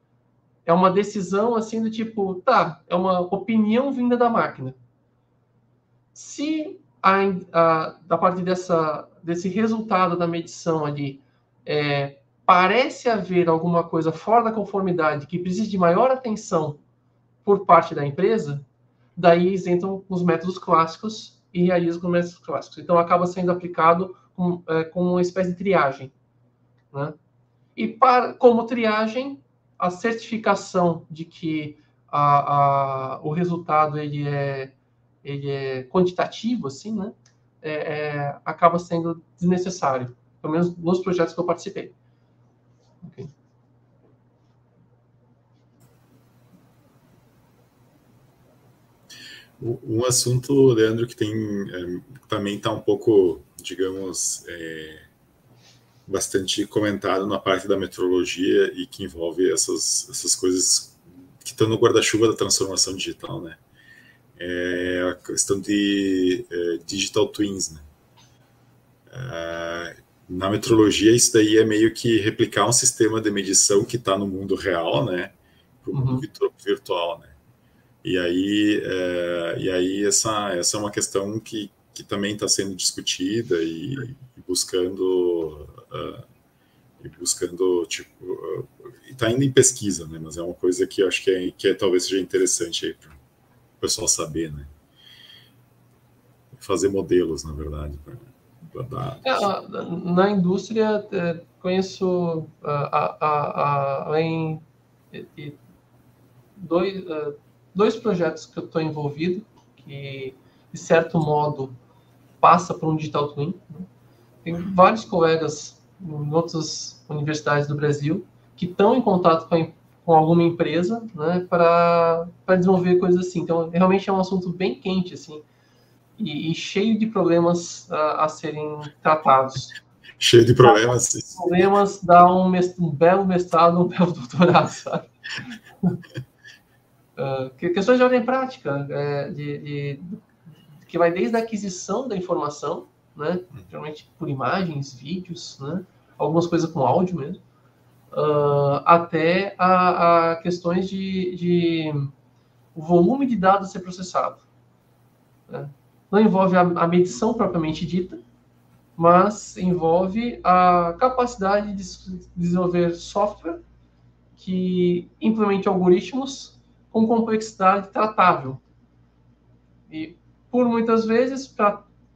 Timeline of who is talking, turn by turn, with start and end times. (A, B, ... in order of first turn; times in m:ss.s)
0:00.6-0:04.8 A
0:06.1-0:16.8 A
0:17.4-0:18.6 A
0:19.2-0:26.1 A
0:26.9-0:27.2 A
0:27.8-0:41.9 A
0:43.0-0:43.3 A
0:49.6-0:55.0 B
0:56.1-1:03.6 B
1:04.4-1:07.8 B
1:09.1-1:17.3 B
1:15.9-1:16.2 A
1:18.0-1:26.2 B
1:27.0-1:33.2 B
1:33.8-1:34.7 B
1:36.5-1:39.5 B
1:39.2-1:45.6 A
1:46.6-1:51.8 A
1:52.4-1:53.9 A
1:54.4-2:05.4 A
2:06.2-2:09.8 A
2:10.2-2:11.5 B
2:10.6-2:15.1 A
2:17.2-2:20.2 A
2:20.8-2:27.4 A
2:28.1-2:32.1 A
2:32.7-2:34.4 A
2:35.5-2:38.2 A
2:39.0-2:43.6 A
2:44.4-2:48.6 A
2:49.9-2:51.8 A